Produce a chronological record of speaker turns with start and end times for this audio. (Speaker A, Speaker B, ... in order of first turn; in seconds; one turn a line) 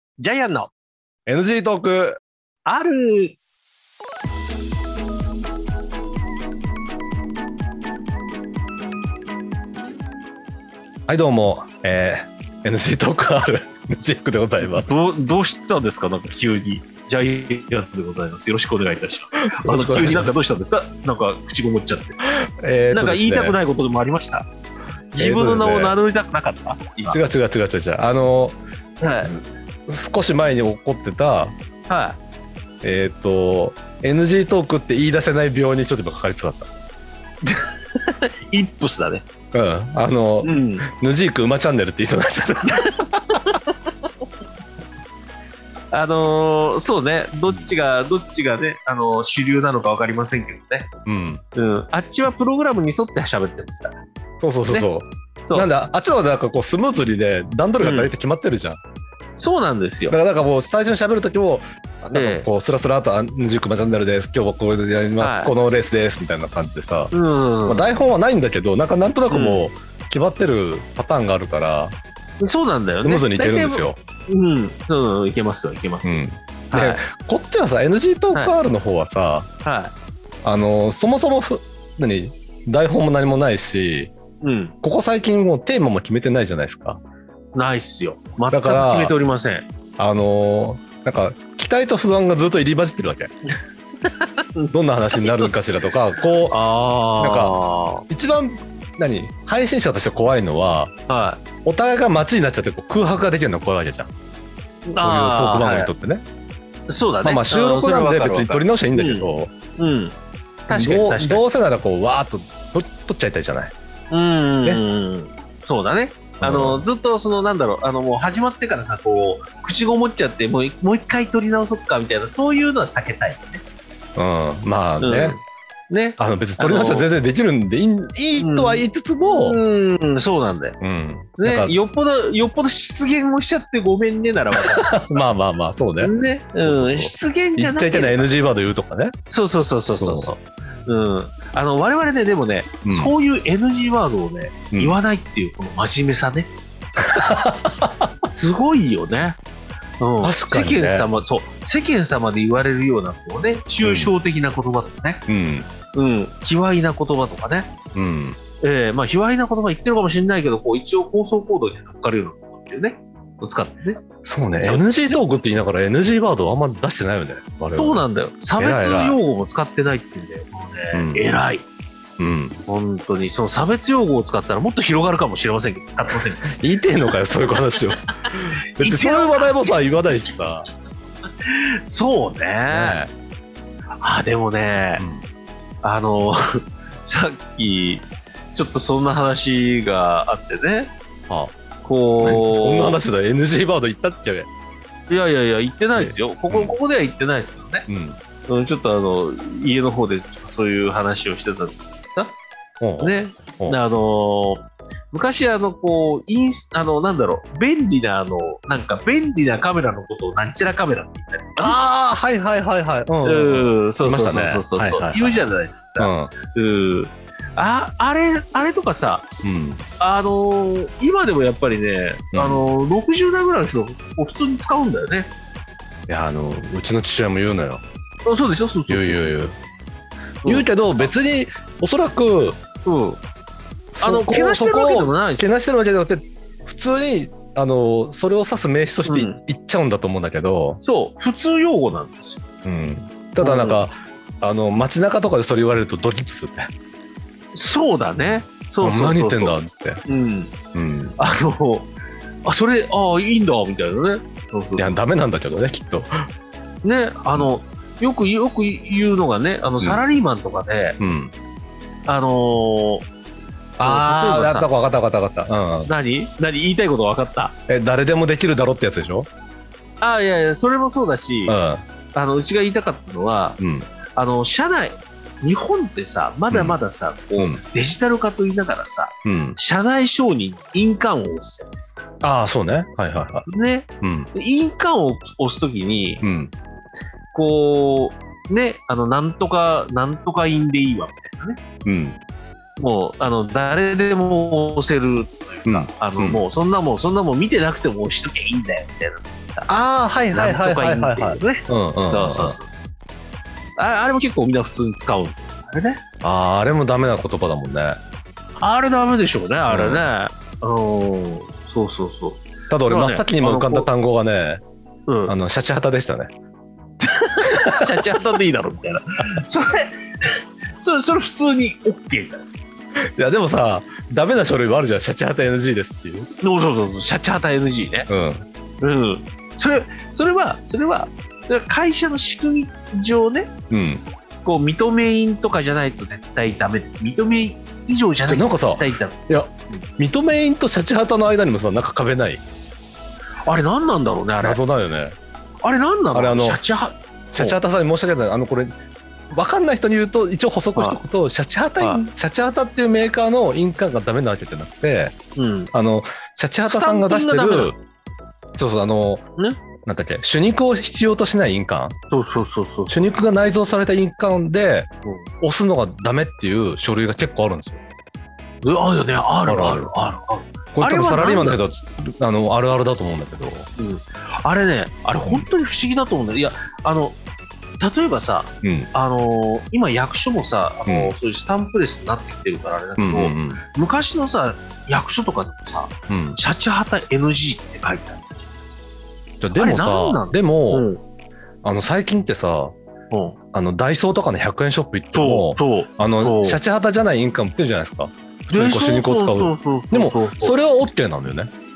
Speaker A: 0.2-0.7
Speaker B: 1.3-2.2
Speaker A: 2.7-3.4
Speaker B: 11.1-14.9
Speaker A: 14.6-22.2
Speaker B: 19.5-20.3
Speaker B: 22.6-23.6
Speaker A: 22.9-24.5
Speaker A: 25.1-27.2
Speaker B: 25.2-26.0
Speaker B: 27.1-28.6
Speaker A: 29.0-29.3
Speaker B: 29.2-31.6
Speaker A: 31.9-32.2
Speaker B: 32.8-36.7
Speaker A: 37.4-39.2
Speaker B: 39.5-43.0
Speaker A: 40.4-40.9
Speaker A: 42.7-43.6
Speaker A: 45.9-50.9
Speaker B: 51.1-51.4
Speaker A: 51.5-54.0
Speaker B: 54.4-58.8
Speaker A: 57.8-58.1
Speaker A: 59.4-60.2
Speaker B: 60.1-67.1
Speaker A: 62.1-62.5
Speaker A: 65.2-65.5
Speaker A: 67.1-67.9
Speaker B: 67.7-72.0
Speaker A: 69.3-69.7
Speaker A: 72.4-77.0
Speaker B: 73.0-74.0
Speaker B: 76.0-79.5
Speaker A: 79.6-79.9
Speaker B: 80.4-84.1
Speaker A: 84.4-84.8
Speaker B: 84.8-87.0
Speaker A: 87.5-89.7
Speaker B: 88.5-89.2
Speaker B: 90.0-93.3
Speaker A: 94.0-95.6
Speaker B: 94.7-96.6
Speaker A: 96.5-98.0
Speaker B: 97.2-97.6
Speaker B: 98.1-100.9
Speaker A: 101.1-101.5
Speaker B: 101.6-104.1
Speaker A: 104.9-105.9
Speaker B: 105.0-106.2
Speaker A: 106.9-110.2
Speaker B: 107.2-109.5
Speaker A: 110.7-111.4
Speaker B: 110.7-113.7
Speaker A: 114.1-123.6
Speaker B: 116.4-116.8
Speaker B: 124.2-125.4
Speaker A: 125.0-127.1
Speaker B: 126.2-129.6
Speaker A: 128.4-130.8
Speaker B: 130.8-131.8
Speaker A: 131.4-135.2
Speaker B: 134.7-139.1
Speaker A: 136.0-138.3
Speaker A: 139.3-146.5
Speaker B: 140.0-140.3
Speaker B: 142.8-143.1
Speaker B: 144.7-145.0
Speaker B: 147.2-148.1
Speaker A: 148.4-149.4
Speaker A: 150.0-155.2
Speaker B: 150.2-151.1
Speaker B: 153.8-154.1
Speaker B: 155.3-155.7
Speaker A: 155.9-157.7
Speaker B: 157.9-158.4
Speaker A: 158.6-164.0
Speaker B: 164.2-168.0
Speaker A: 164.6-165.2
Speaker A: 167.8-171.7
Speaker B: 168.6-169.2
Speaker B: 170.9-171.2
Speaker B: 172.2-172.6
Speaker A: 172.7-176.5
Speaker B: 176.5-180.7
Speaker A: 178.3-179.8
Speaker A: 181.5-183.0
Speaker B: 182.7-183.1
Speaker A: 184.0-185.0
Speaker B: 185.0-185.3
Speaker A: 185.8-190.9
Speaker B: 191.3-191.5
Speaker A: 191.8-193.0
Speaker B: 192.2-194.5
Speaker A: 195.1-197.9
Speaker B: 195.9-196.8
Speaker B: 197.9-198.2
Speaker A: 198.5-202.4
Speaker B: 202.8-203.8
Speaker A: 203.0-211.8
Speaker B: 211.6-216.3
Speaker A: 213.2-219.2
Speaker B: 219.4-219.8
Speaker A: 220.0-225.3
Speaker B: 222.3-222.6
Speaker B: 226.1-227.8
Speaker A: 228.2-229.3
Speaker B: 228.9-229.6
Speaker A: 230.4-231.1
Speaker B: 230.5-232.6
Speaker A: 232.8-233.2
Speaker B: 233.9-240.8
Speaker A: 234.0-235.5
Speaker A: 239.1-239.4
Speaker A: 240.8-242.4
Speaker B: 242.7-246.7
Speaker A: 243.4-243.9
Speaker A: 247.5-250.5
Speaker B: 248.8-250.0
Speaker B: 250.7-251.2
Speaker A: 251.2-251.9
Speaker A: 252.4-254.9
Speaker B: 254.8-256.3
Speaker A: 256.8-261.0
Speaker B: 261.0-261.3
Speaker A: 262.1-263.1
Speaker B: 263.8-265.9
Speaker A: 263.8-264.7
Speaker A: 265.9-267.6
Speaker B: 267.7-269.3
Speaker A: 270.0-271.6
Speaker B: 271.5-271.9
Speaker A: 272.1-273.6
Speaker B: 273.6-273.9
Speaker A: 274.1-282.1
Speaker B: 276.5-276.8
Speaker B: 279.2-279.6
Speaker B: 282.2-283.5
Speaker A: 283.5-286.2
Speaker B: 284.0-284.3
Speaker B: 286.2-286.5
Speaker A: 287.3-291.6
Speaker B: 291.9-292.2
Speaker A: 292.8-299.7
Speaker B: 295.7-296.4
Speaker B: 299.7-302.6
Speaker A: 300.3-302.9
Speaker A: 303.8-306.0
Speaker B: 306.2-308.0
Speaker A: 308.6-313.9
Speaker B: 309.7-310.1
Speaker B: 312.7-314.6
Speaker A: 315.1-315.3
Speaker B: 315.3-316.3
Speaker A: 317.0-322.6
Speaker B: 323.2-326.3
Speaker A: 326.4-328.1
Speaker B: 328.1-328.4
Speaker A: 328.8-333.5
Speaker B: 333.7-334.0
Speaker A: 334.4-339.8
Speaker B: 338.3-342.4
Speaker A: 343.4-344.6
Speaker B: 344.4-345.2
Speaker A: 345.6-347.6
Speaker B: 346.1-346.6
Speaker B: 347.3-348.7
Speaker B: 349.3-355.1
Speaker A: 350.8-351.0
Speaker A: 355.4-355.7
Speaker B: 355.7-357.8
Speaker A: 356.7-357.7
Speaker B: 358.6-359.2
Speaker B: 359.9-362.0
Speaker A: 362.1-362.9
Speaker B: 362.9-364.9
Speaker A: 365.1-365.3
Speaker B: 365.4-367.8
Speaker A: 368.6-371.6
Speaker B: 369.5-369.9
Speaker B: 370.7-373.7
Speaker A: 373.8-377.2
Speaker A: 377.8-388.4
Speaker B: 378.6-378.9
Speaker B: 380.9-381.1
Speaker B: 383.0-383.6
Speaker B: 386.1-386.4
Speaker B: 389.4-390.9
Speaker A: 389.5-391.0
Speaker B: 391.6-392.8
Speaker A: 393.1-393.4
Speaker B: 393.5-401.5
Speaker A: 395.1-396.6
Speaker A: 398.5-400.6